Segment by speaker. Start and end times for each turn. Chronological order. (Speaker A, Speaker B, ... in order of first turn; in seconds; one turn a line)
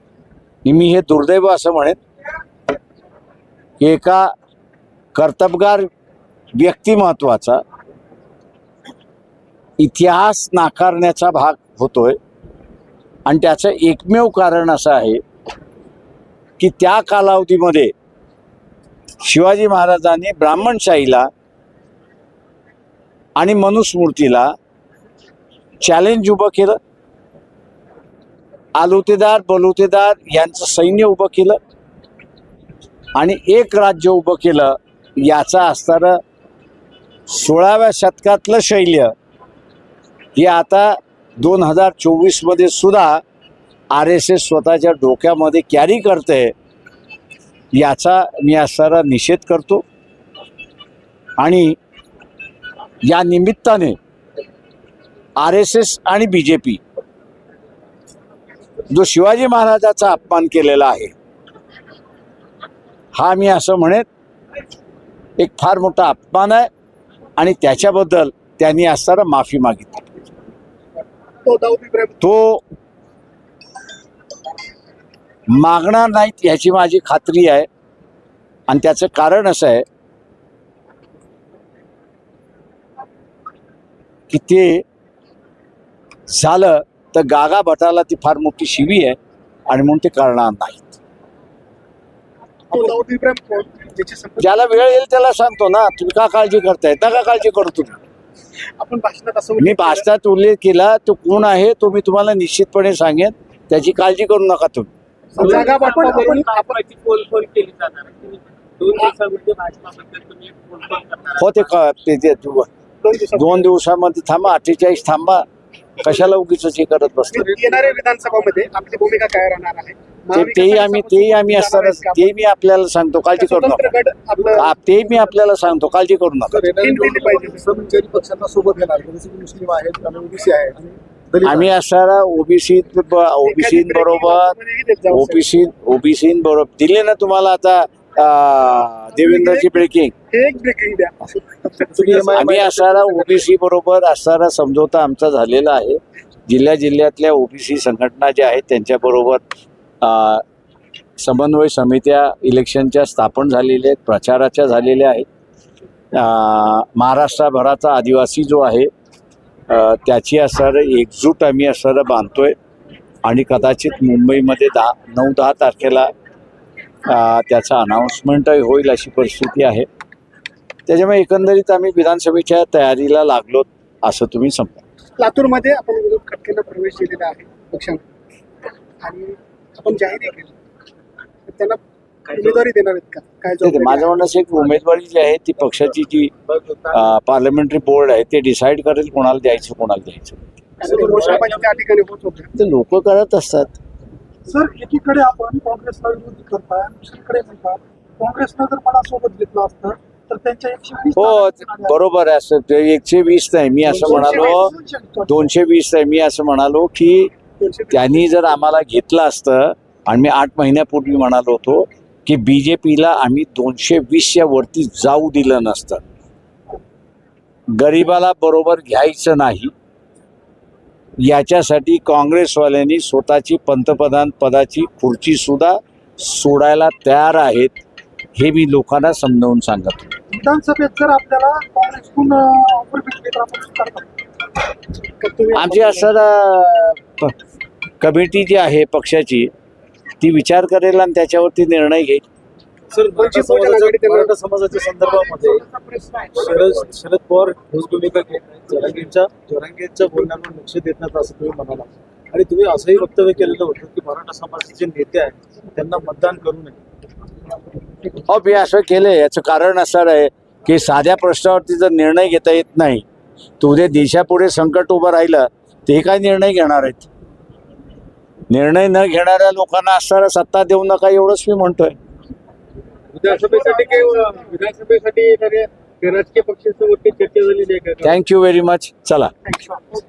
Speaker A: 0.6-2.0
Speaker A: 3.8-4.3
Speaker A: 5.1-5.9
Speaker A: 6.5-7.6
Speaker A: 9.8-12.2
Speaker A: 13.2-15.2
Speaker A: 16.6-17.9
Speaker A: 19.2-21.3
Speaker A: 23.4-24.5
Speaker A: 25.8-26.8
Speaker A: 28.8-31.6
Speaker A: 33.1-36.2
Speaker A: 37.3-39.1
Speaker A: 40.3-43.2
Speaker A: 43.9-46.5
Speaker A: 47.7-49.8
Speaker A: 51.4-51.8
Speaker A: 53.0-54.0
Speaker A: 55.4-56.8
Speaker A: 58.9-61.1
Speaker A: 63.1-64.0
Speaker A: 65.4-66.7
Speaker A: 67.4-70.0
Speaker B: 71.4-72.2
Speaker A: 72.2-72.6
Speaker A: 75.5-77.7
Speaker A: 78.7-79.8
Speaker A: 84.3-84.8
Speaker A: 86.3-89.2
Speaker A: 89.7-91.0
Speaker B: 92.7-94.8
Speaker A: 94.4-98.0
Speaker B: 98.8-100.0
Speaker A: 99.6-104.9
Speaker B: 105.3-106.8
Speaker C: 105.4-111.3
Speaker D: 105.8-108.1
Speaker D: 108.8-110.5
Speaker A: 111.3-112.7
Speaker B: 113.0-113.7
Speaker A: 113.3-115.4
Speaker A: 116.0-117.5
Speaker B: 117.3-122.3
Speaker A: 120.3-123.8
Speaker B: 123.3-124.7
Speaker A: 124.5-126.6
Speaker E: 126.5-131.7
Speaker B: 126.8-127.7
Speaker A: 131.4-134.5
Speaker B: 133.4-135.4
Speaker A: 135.1-140.1
Speaker B: 139.1-142.4
Speaker A: 142.0-149.4
Speaker E: 142.1-142.7
Speaker A: 150.0-150.4
Speaker A: 151.2-155.2
Speaker A: 156.1-158.9
Speaker A: 159.7-162.5
Speaker A: 163.2-166.1
Speaker A: 167.1-169.9
Speaker A: 170.9-174.8
Speaker B: 175.2-178.0
Speaker B: 179.0-180.5
Speaker B: 181.5-184.3
Speaker A: 183.6-186.3
Speaker E: 186.5-187.0
Speaker A: 186.9-190.4
Speaker B: 190.8-192.5
Speaker E: 190.9-191.6
Speaker A: 192.6-193.8
Speaker D: 194.5-201.9
Speaker A: 201.2-204.7
Speaker D: 203.9-205.4
Speaker B: 204.1-204.7
Speaker A: 205.2-207.3
Speaker B: 207.6-208.2
Speaker A: 207.9-216.0
Speaker A: 217.8-219.7
Speaker A: 221.2-227.8
Speaker A: 228.3-230.1
Speaker D: 230.3-234.1
Speaker B: 235.2-236.1
Speaker A: 235.5-237.3
Speaker A: 238.0-239.5
Speaker A: 240.2-242.2
Speaker E: 242.9-245.7
Speaker B: 243.1-244.3
Speaker E: 246.2-256.8
Speaker A: 258.3-263.1
Speaker A: 263.6-267.1
Speaker A: 268.5-271.9
Speaker C: 273.1-278.1
Speaker E: 273.2-273.7
Speaker A: 278.0-279.3